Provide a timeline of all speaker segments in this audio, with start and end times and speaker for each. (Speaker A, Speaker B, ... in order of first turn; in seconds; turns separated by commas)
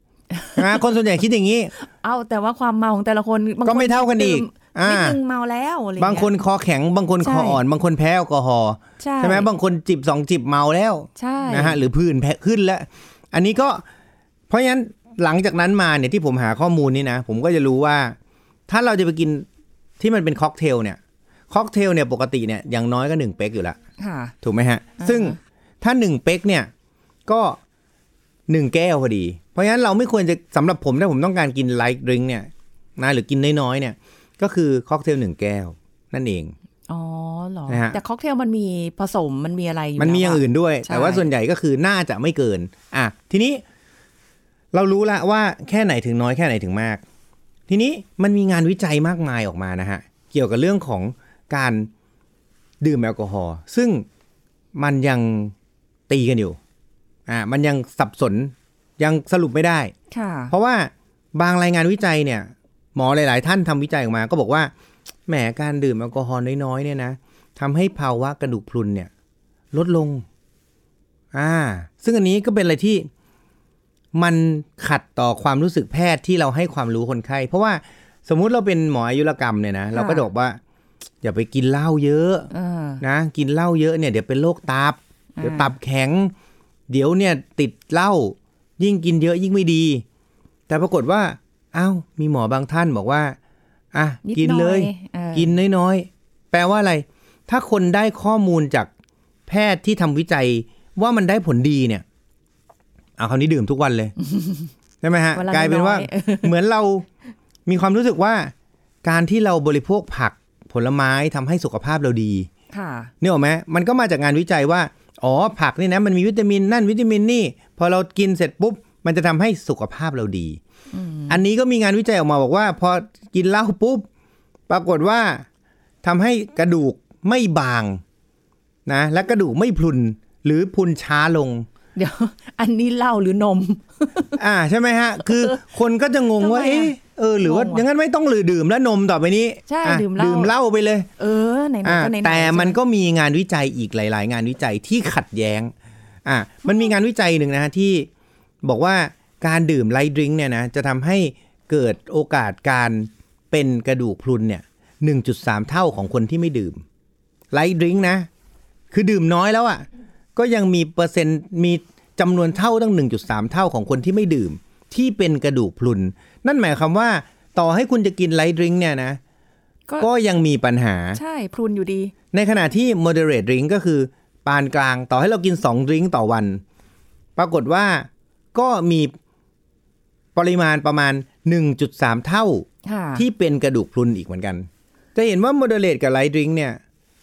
Speaker A: 0.3-0.8, Speaker B: 0.6-1.7, Speaker A: 1.8-6.3, Speaker B: 3.6-5.2, Speaker B: 6.0-13.8, Speaker A: 7.2-7.6, Speaker A: 9.0-9.5, Speaker A: 11.2-11.8, Speaker B: 14.5-18.2, Speaker B: 18.7-19.5, Speaker B: 20.0-21.0, Speaker B: 21.5-23.8, Speaker A: 24.0-24.3, Speaker B: 24.4-26.7, Speaker A: 25.0-25.4, Speaker B: 27.3-27.6, Speaker B: 28.5-36.5, Speaker A: 36.9-41.2, Speaker B: 37.7-38.0, Speaker B: 40.0-43.6, Speaker B: 44.7-47.0, Speaker B: 47.7-51.9, Speaker B: 52.8-54.1, Speaker B: 54.8-55.5, Speaker B: 56.1-56.6, Speaker B: 57.3-59.9, Speaker A: 60.1-60.5, Speaker B: 60.5-64.7, Speaker B: 65.3-69.1, Speaker B: 69.7-70.2, Speaker B: 71.3-73.1, Speaker B: 74.1-80.6, Speaker A: 79.9-80.3, Speaker B: 81.2-82.5, Speaker A: 82.5-83.0, Speaker B: 83.0-86.3, Speaker A: 85.4-85.8, Speaker B: 86.9-90.0, Speaker B: 90.7-93.4, Speaker B: 93.9-98.9, Speaker A: 94.2-95.5, Speaker B: 99.5-102.0, Speaker B: 103.2-104.2, Speaker A: 104.2-104.7, Speaker B: 105.0-107.1, Speaker A: 105.3-106.5, Speaker B: 107.7-108.5, Speaker B: 109.0-112.5, Speaker A: 112.7-113.1, Speaker B: 113.2-120.6, Speaker A: 120.9-121.4, Speaker B: 121.3-124.1, Speaker B: 124.7-125.5, Speaker B: 126.0-128.0, Speaker B: 128.9-131.7, Speaker A: 132.0-134.4, Speaker B: 134.4-141.1, Speaker A: 135.3-135.6, Speaker A: 136.4-137.8, Speaker A: 139.7-140.5, Speaker A: 141.2-142.8, Speaker B: 141.8-145.7, Speaker B: 146.2-148.1, Speaker A: 146.7-146.9, Speaker B: 148.6-156.8, Speaker B: 157.5-158.3, Speaker B: 158.9-169.2, Speaker B: 170.0-171.2, Speaker A: 171.1-172.1, Speaker B: 172.3-176.6, Speaker B: 177.4-179.1, Speaker B: 180.3-186.8, Speaker A: 182.8-183.3